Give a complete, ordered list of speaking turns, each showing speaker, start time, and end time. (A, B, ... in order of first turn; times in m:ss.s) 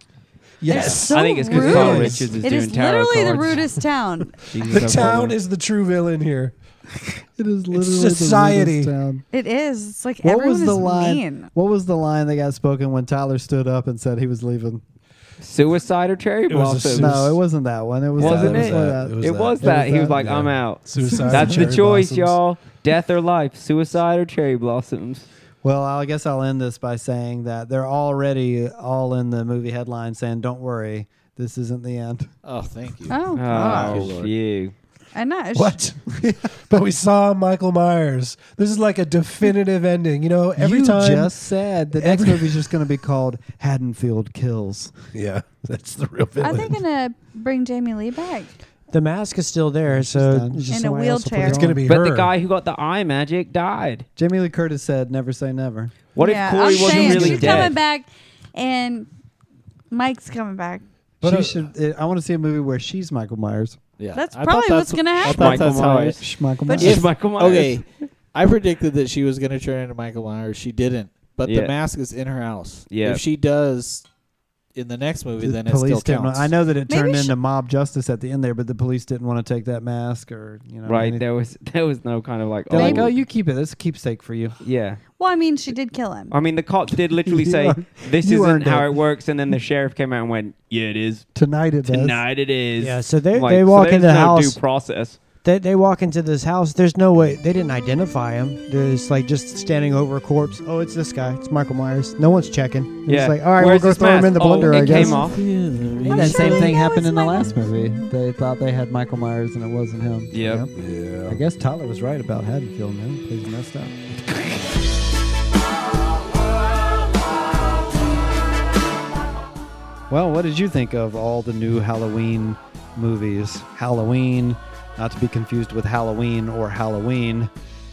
0:00.6-0:02.4 A
0:00.7-0:05.0 B
0:00.7-0:03.6 C
0:04.4-0:05.4 C
0:04.6-0:06.5 A
0:07.4-0:09.2 D
0:07.7-0:08.9 A
0:09.3-0:11.5 B
0:10.2-0:14.8 D
0:15.4-0:17.2 C
0:16.5-0:17.4 A
0:17.0-0:20.3 D
0:18.2-0:22.4 A
0:18.2-0:25.3 C
0:21.0-0:21.6 D
0:25.6-0:32.3 D
0:32.4-0:34.3 E
0:33.1-0:33.7 B
0:33.3-0:34.7 C
0:33.5-0:34.0 F
0:33.6-0:34.1 D
0:35.1-0:35.8 B
0:35.5-0:42.7 A
0:36.1-0:36.5 D
0:40.6-0:44.9 D
0:45.1-0:46.8 A
0:46.4-0:48.5 B
0:48.9-0:51.8 F
0:49.8-0:50.7 D
0:50.7-0:51.7 B
0:51.4-0:52.3 A
0:51.8-0:54.0 C
0:54.2-0:55.9 D
0:56.1-0:57.7 C
0:56.2-0:59.1 B
0:56.7-0:57.7 A
0:59.9-1:00.8 B
1:01.2-1:03.8 D
1:01.2-1:01.7 A
1:04.0-1:06.2 E
1:04.1-1:05.7 B
1:05.2-1:06.2 C
1:06.2-1:07.0 D
1:06.6-1:07.0 B
1:06.8-1:07.8 C
1:06.8-1:14.0 E
1:11.4-1:11.7 C
1:12.9-1:13.2 C
1:14.7-1:16.5 E
1:15.4-1:21.2 D
1:16.9-1:17.3 B
1:20.8-1:23.1 C
1:22.7-1:24.6 D
1:24.6-1:25.0 C
1:25.2-1:26.3 B
1:26.3-1:31.3 C
1:27.2-1:28.9 D
1:31.3-1:32.2 D
1:31.9-1:35.2 C
1:32.8-1:34.6 F
1:35.4-1:46.7 F
1:43.1-1:45.4 C
1:44.7-1:46.5 E
1:46.0-1:50.3 D
1:46.1-1:47.6 B
1:50.3-1:50.7 C
1:50.4-1:50.7 F
1:50.7-1:51.4 A
1:51.3-1:53.9 D
2:00.1-2:07.5 D